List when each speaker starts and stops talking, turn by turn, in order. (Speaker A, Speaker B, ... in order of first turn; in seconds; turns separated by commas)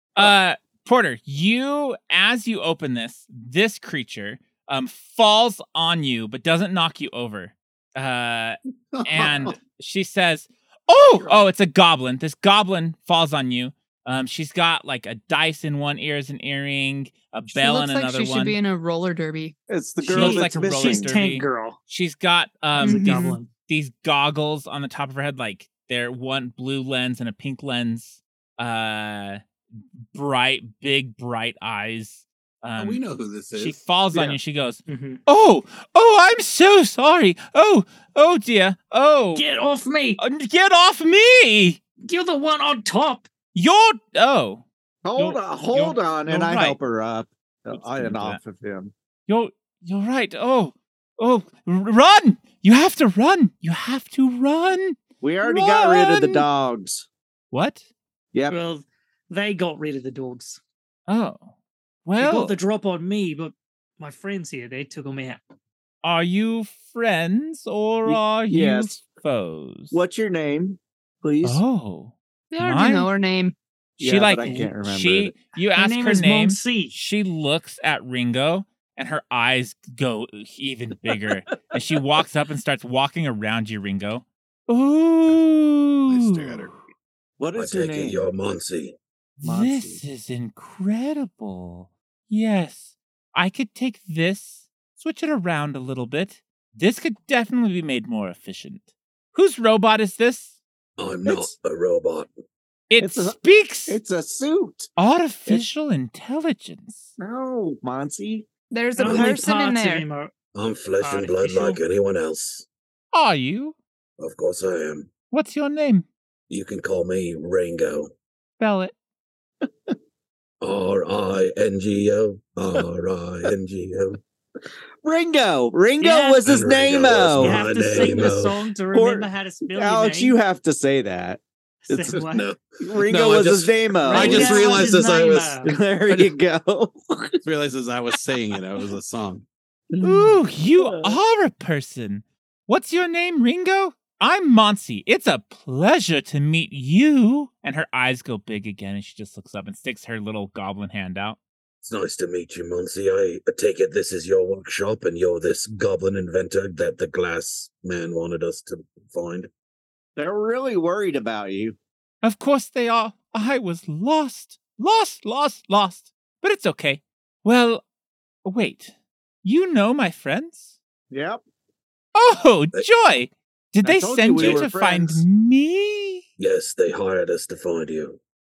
Speaker A: 0.1-18.6, Speaker B: 8.9-9.6, Speaker B: 11.1-11.5, Speaker C: 17.5-19.6, Speaker D: 19.7-21.1, Speaker A: 20.0-29.4, Speaker E: 20.1-21.8, Speaker C: 22.8-23.4, Speaker E: 22.8-23.5, Speaker A: 30.1-33.0, Speaker B: 32.8-33.8, Speaker A: 33.5-39.4, Speaker D: 34.1-34.4, Speaker E: 34.9-35.2, Speaker E: 39.3-40.2, Speaker A: 40.2-41.8, Speaker E: 42.0-43.3, Speaker A: 43.5-44.6, Speaker D: 45.0-48.9, Speaker A: 45.2-46.8, Speaker A: 47.7-48.4, Speaker A: 49.3-56.5, Speaker D: 55.2-57.1, Speaker A: 57.5-57.9, Speaker D: 58.3-58.6, Speaker E: 58.5-60.6, Speaker A: 61.1-61.5, Speaker A: 62.0-62.5, Speaker E: 62.2-65.4, Speaker A: 66.0-70.0, Speaker D: 68.0-69.0, Speaker D: 69.9-71.6, Speaker A: 71.4-73.1, Speaker C: 72.5-73.5, Speaker D: 74.0-75.3, Speaker A: 74.0-86.7, Speaker E: 74.4-74.7, Speaker E: 75.7-77.0, Speaker B: 86.1-86.7, Speaker D: 87.4-88.3, Speaker F: 87.5-89.0, Speaker A: 89.4-100.6, Speaker D: 89.4-90.0, Speaker F: 101.0-102.3, Speaker A: 102.9-104.0, Speaker D: 103.0-104.9, Speaker A: 105.0-107.1, Speaker D: 107.2-108.5, Speaker C: 108.7-110.0, Speaker E: 109.0-110.3, Speaker F: 110.5-112.7, Speaker E: 111.0-111.8, Speaker A: 113.1-113.8, Speaker F: 114.2-115.1, Speaker A: 115.3-116.0, Speaker F: 116.5-118.1, Speaker A: 118.6-118.9, Speaker F: 120.6-124.2, Speaker D: 125.0-131.4, Speaker E: 126.0-126.4, Speaker F: 126.5-128.6, Speaker E: 127.4-130.3, Speaker E: 131.8-132.5, Speaker B: 132.0-136.3, Speaker D: 132.8-135.0, Speaker E: 134.0-135.7, Speaker D: 135.6-137.4, Speaker B: 137.4-139.4, Speaker D: 139.9-141.2, Speaker A: 140.0-151.4, Speaker F: 151.8-159.5, Speaker D: 160.2-161.8, Speaker A: 162.2-167.8, Speaker A: 168.4-170.8, Speaker D: 171.1-171.4, Speaker A: 172.1-176.2, Speaker D: 173.8-175.2, Speaker F: 174.3-174.6, Speaker F: 176.4-178.2